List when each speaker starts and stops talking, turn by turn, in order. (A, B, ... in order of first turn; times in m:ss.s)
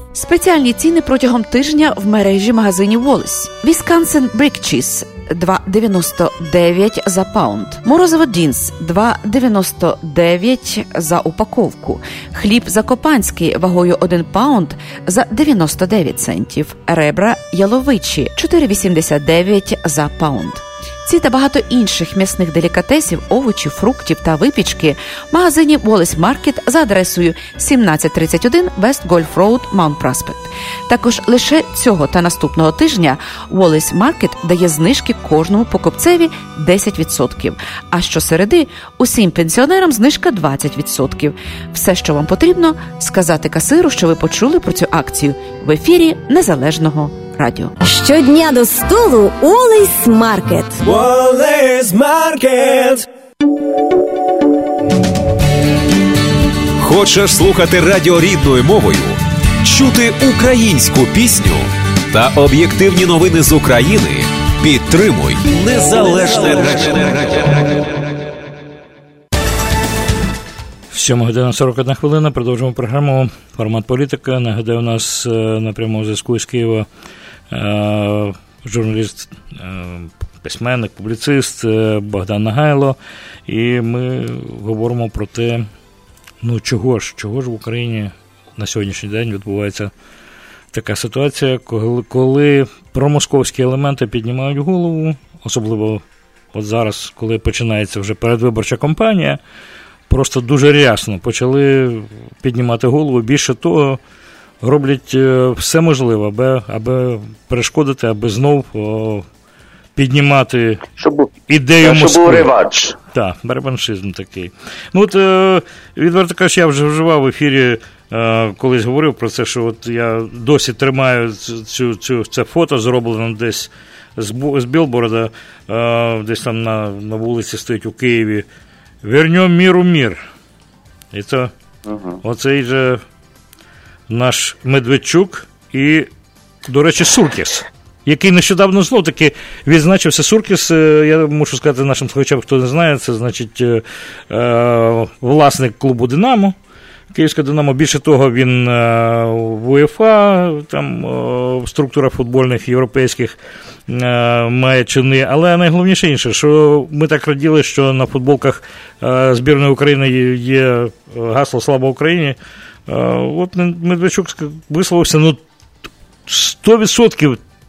0:00.1-0:47.7 A
0:47.8-0:50.8 B
0:50.9-0:53.0 C
0:56.8-1:07.6 C
1:10.9-1:16.9 D
1:17.5-1:25.7 D
1:26.4-1:29.9 D
1:30.7-1:36.0 D
1:36.5-1:39.4 D
1:40.1-1:44.0 D
1:44.6-1:49.3 D
1:50.0-1:50.8 D
1:51.0-1:53.0 E
1:51.5-1:52.5 D
1:53.1-2:08.4 D
2:09.0-2:10.2 D
2:11.1-2:11.5 D
2:11.9-2:12.2 E
2:12.2-2:13.0 D
2:14.1-2:16.1 D
2:16.7-2:26.6 D
2:27.1-2:33.4 D
2:33.9-2:42.4 D
2:42.9-2:45.4 D
2:46.3-2:47.4 D